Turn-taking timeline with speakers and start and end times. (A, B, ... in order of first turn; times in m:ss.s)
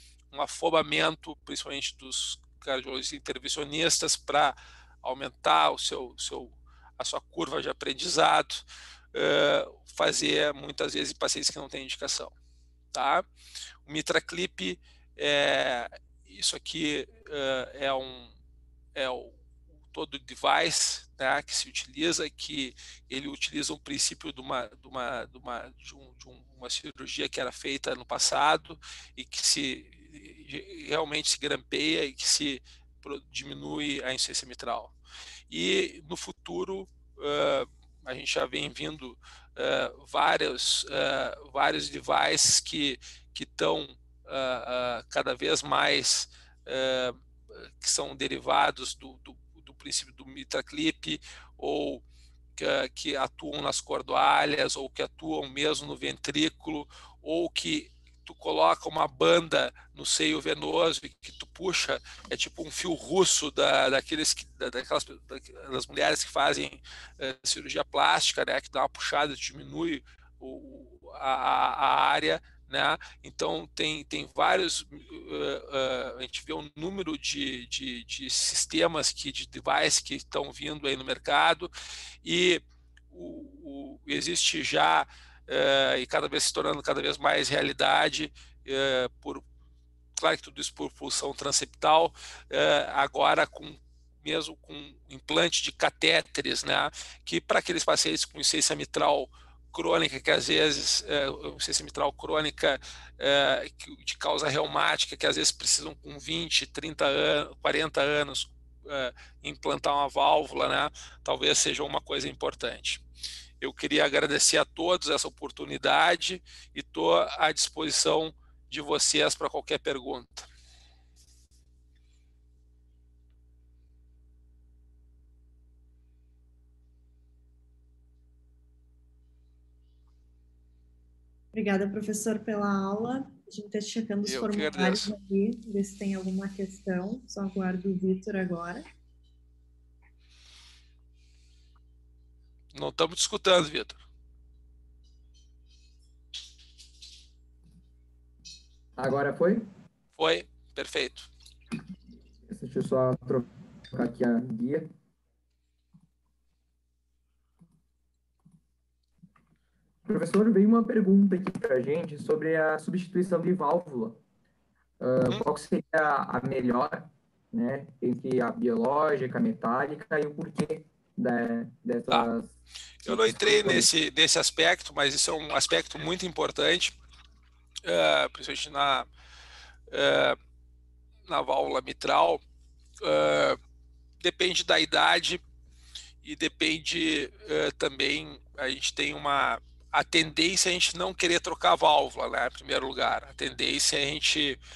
0:00.3-0:12.3 A
0:12.9-0:13.2 A
0:13.8-0:18.3 A
0:18.9-0:19.4 A
0:19.9-0:34.9 A
0:35.5-0:47.2 A
0:47.8-0:52.0 A
0:52.6-1:21.7 A
1:22.2-1:29.4 A
1:30.2-1:53.0 A
1:53.6-2:00.5 A
2:11.5-2:18.8 B
2:14.2-2:15.1 A
2:22.7-2:24.0 A
2:29.0-2:29.7 C
2:30.2-2:31.3 A
2:32.5-2:34.9 C
2:40.0-2:44.2 C
2:45.0-2:52.5 C
2:53.0-2:57.0 A
2:53.0-2:53.9 C
2:57.8-2:59.1 A
2:59.9-3:00.4 A
3:01.3-3:02.4 A
3:03.0-3:03.6 A
3:04.2-3:05.4 A
3:06.2-3:14.6 A